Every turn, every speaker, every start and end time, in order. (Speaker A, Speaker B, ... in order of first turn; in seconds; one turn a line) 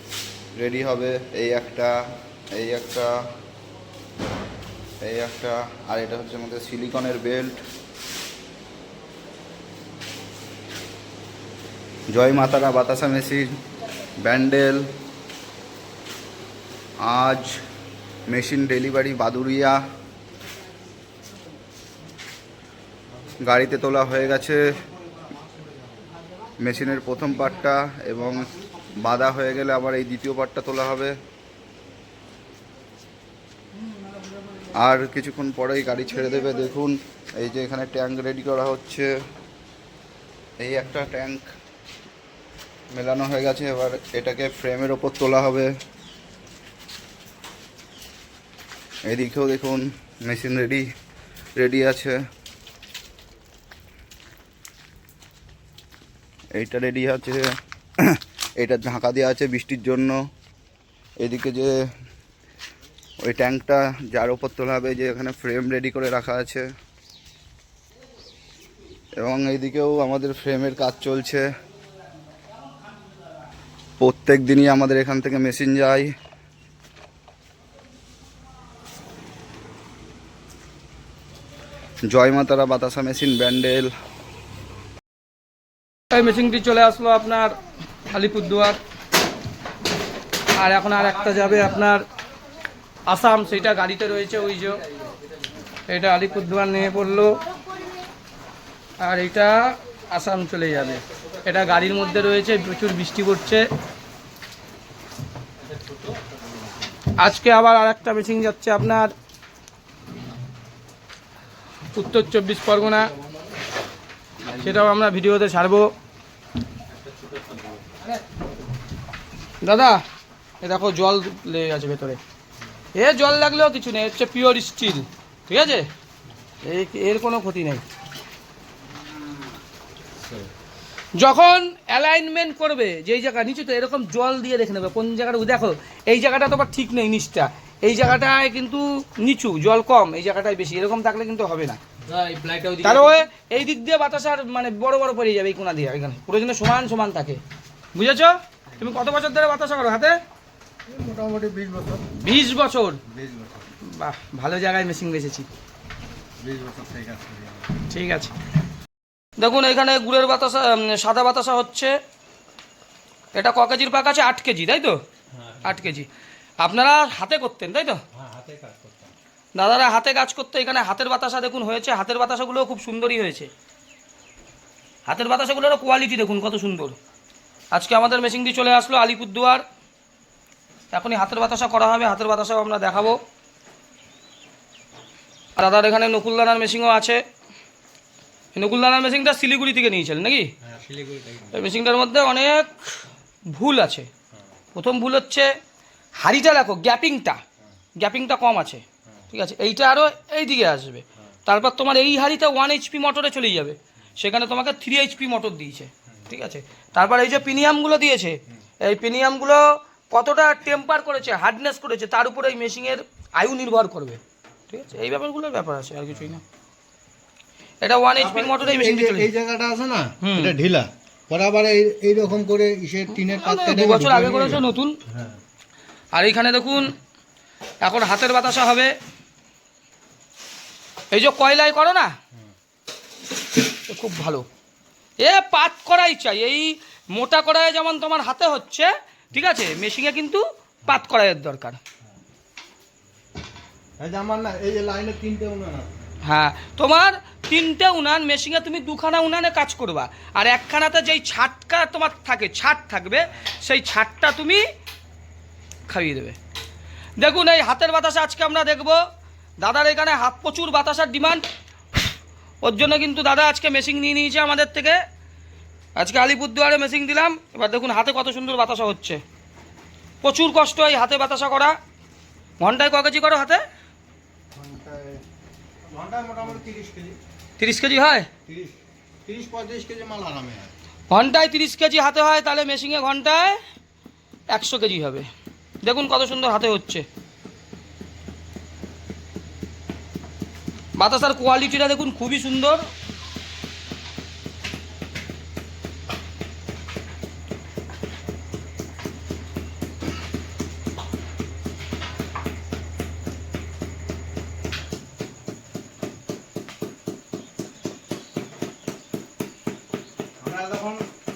Speaker A: 0.6-3.2
Speaker A: 5.0-7.6
Speaker A: 12.1-13.5
Speaker A: 14.2-14.9
Speaker A: 17.0-17.6
Speaker A: 18.3-19.8
Speaker A: 23.4-24.7
Speaker B: 24.6-26.1
Speaker A: 26.6-31.2
Speaker A: 34.8-39.1
Speaker A: 40.6-41.5
Speaker A: 42.9-45.7
Speaker A: 49.1-50.9
Speaker A: 51.6-52.2
Speaker A: 56.5-60.2
Speaker A: 61.2-61.9
Speaker A: 63.2-66.7
Speaker A: 69.2-71.5
Speaker A: 74.0-76.1
Speaker A: 82.1-83.9
Speaker C: 86.1-87.6
Speaker C: 88.1-88.8
Speaker C: 90.5-92.0
Speaker C: 93.1-94.8
Speaker C: 95.9-97.4
Speaker C: 99.0-103.7
Speaker C: 107.1-109.1
Speaker C: 111.9-113.1
Speaker C: 114.5-115.9
Speaker D: 116.9-118.0
Speaker C: 119.6-120.0
Speaker C: 120.6-122.2
Speaker C: 122.9-125.9
Speaker C: 126.6-127.8
Speaker C: 131.2-141.8
Speaker D: 142.1-143.2
Speaker C: 142.8-147.4
Speaker C: 147.9-150.2
Speaker B: 150.9-152.1
Speaker C: 152.1-153.0
Speaker B: 153.1-153.7
Speaker C: 153.8-155.5
Speaker B: 156.4-157.8
Speaker C: 157.9-158.3
Speaker C: 159.4-161.9
Speaker C: 163.3-165.0
Speaker B: 165.3-165.8
Speaker C: 165.6-166.1
Speaker C: 166.6-168.0
Speaker B: 168.1-169.1
Speaker C: 169.6-173.5
Speaker C: 175.1-177.0
Speaker C: 177.7-179.6
Speaker C: 180.9-183.2
Speaker C: 185.6-187.2
Speaker C: 188.6-190.5
Speaker B: 190.6-191.6
Speaker C: 191.5-192.8
Speaker C: 193.5-194.1
Speaker C: 194.8-195.5
Speaker C: 196.2-197.4
Speaker C: 198.0-216.4
Speaker C: 217.8-219.3
Speaker B: 218.2-225.4
Speaker C: 220.2-220.6
Speaker C: 223.1-225.0
Speaker C: 226.1-226.9
Speaker C: 227.8-228.9
Speaker C: 231.1-232.1
Speaker C: 233.8-234.4
Speaker C: 235.2-241.8
Speaker B: 244.0-246.1
Speaker C: 246.2-254.6
Speaker C: 255.9-256.4
Speaker C: 257.2-259.0
Speaker C: 259.6-261.4
Speaker C: 262.6-265.0
Speaker C: 266.0-269.2
Speaker C: 270.2-271.8
Speaker C: 272.6-273.6
Speaker B: 274.6-275.2
Speaker B: 275.9-277.2
Speaker C: 277.6-278.3
Speaker B: 278.5-280.7
Speaker C: 281.1-283.6
Speaker C: 284.5-285.3
Speaker C: 285.8-287.1
Speaker C: 291.0-292.8
Speaker B: 310.4-311.1